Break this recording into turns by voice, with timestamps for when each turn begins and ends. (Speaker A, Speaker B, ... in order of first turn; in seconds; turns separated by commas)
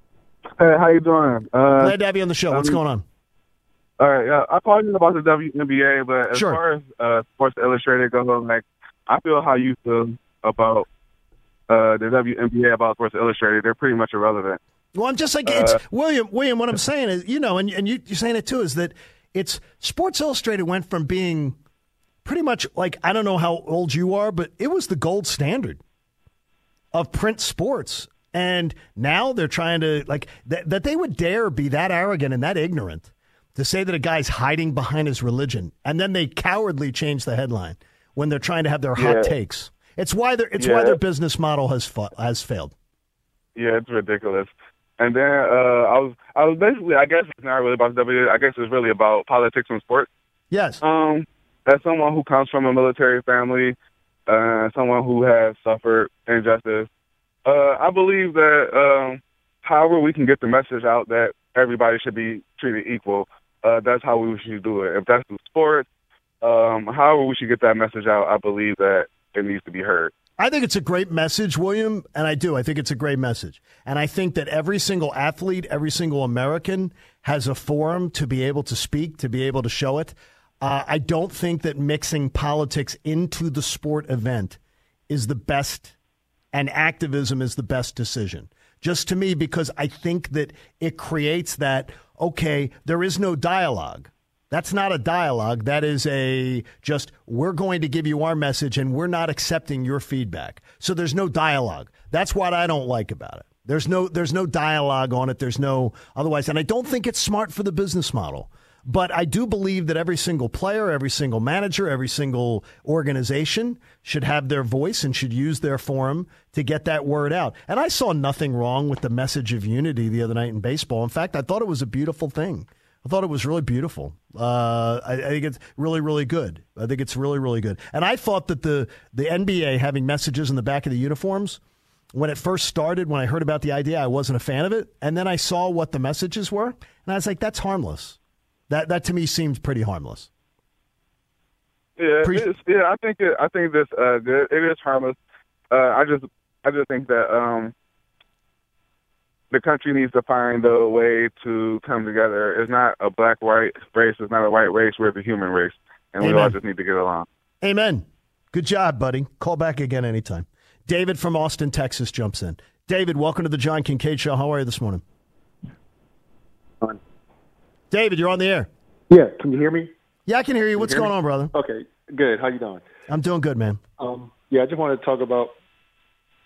Speaker A: 0.6-1.9, Speaker B: 1.8-3.0, Speaker A: 2.5-2.8, Speaker A: 4.0-10.8, Speaker B: 6.3-6.6, Speaker A: 11.7-14.6, Speaker B: 14.9-21.6, Speaker A: 15.5-15.8, Speaker B: 22.2-25.8, Speaker B: 26.9-42.7, Speaker A: 39.0-39.3, Speaker A: 40.6-41.0, Speaker A: 43.5-50.1, Speaker B: 50.5-50.8, Speaker A: 50.8-53.8, Speaker A: 54.3-56.9, Speaker A: 57.5-65.9, Speaker A: 66.4-70.1, Speaker B: 70.4-85.9, Speaker B: 86.5-131.6, Speaker B: 132.1-138.2, Speaker B: 138.7-140.3, Speaker A: 142.0-145.2, Speaker A: 145.7-147.7, Speaker A: 149.5-157.2, Speaker B: 156.2-156.6, Speaker B: 157.6-165.0, Speaker B: 167.9-168.7, Speaker C: 169.1-169.9, Speaker B: 170.3-171.5, Speaker C: 170.8-172.8, Speaker B: 173.1-173.8, Speaker C: 174.0-175.5